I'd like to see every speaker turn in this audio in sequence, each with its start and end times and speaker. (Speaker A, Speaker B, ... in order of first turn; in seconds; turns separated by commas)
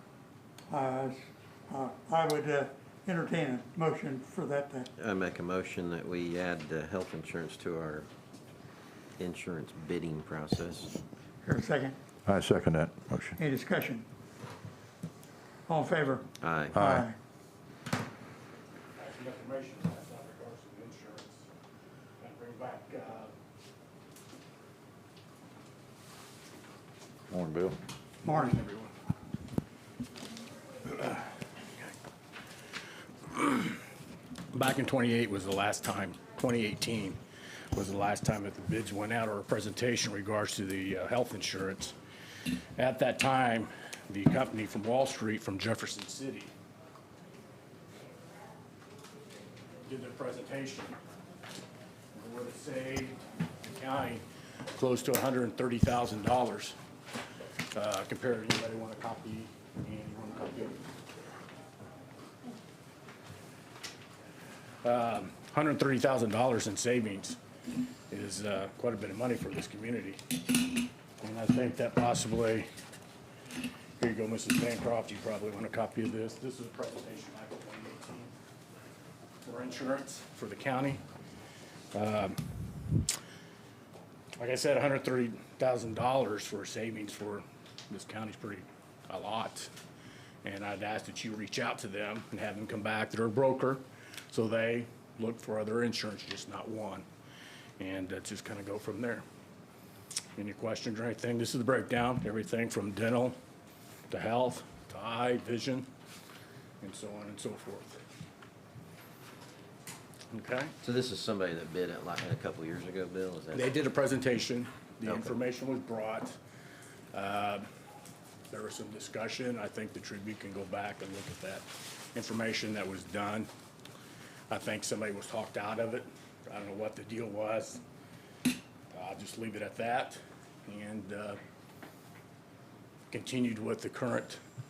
Speaker A: 0.7-4.9, Speaker B: 5.0-8.1, Speaker B: 9.2-10.9, Speaker A: 11.4-11.9, Speaker C: 12.2-13.4, Speaker A: 13.4-14.0, Speaker A: 15.7-17.1, Speaker B: 16.4-16.8, Speaker C: 16.7-17.1, Speaker D: 19.0-21.5, Speaker D: 22.2-23.3, Speaker C: 27.3-27.8, Speaker D: 28.2-28.9, Speaker A: 28.2-28.6, Speaker D: 30.9-31.2, Speaker D: 33.3-33.8, Speaker D: 34.5-37.2, Speaker D: 37.7-42.0, Speaker D: 42.8-46.5, Speaker D: 49.8-51.0, Speaker D: 52.1-54.2, Speaker D: 54.7-56.8, Speaker D: 57.7-60.8, Speaker D: 64.8-67.4, Speaker D: 68.1-70.6, Speaker D: 71.2-72.7, Speaker D: 74.0-78.3, Speaker D: 79.4-81.0, Speaker D: 81.9-82.4, Speaker D: 84.4-89.7, Speaker D: 90.4-97.0, Speaker D: 97.8-99.2, Speaker D: 100.4-103.4, Speaker D: 104.1-105.9, Speaker D: 106.8-108.0, Speaker D: 110.3-110.7, Speaker B: 110.8-113.7, Speaker D: 113.5-116.3, Speaker B: 115.0-115.3, Speaker D: 117.1-117.7, Speaker D: 118.5-123.5, Speaker D: 124.5-127.8, Speaker D: 128.9-131.4, Speaker D: 133.1-134.4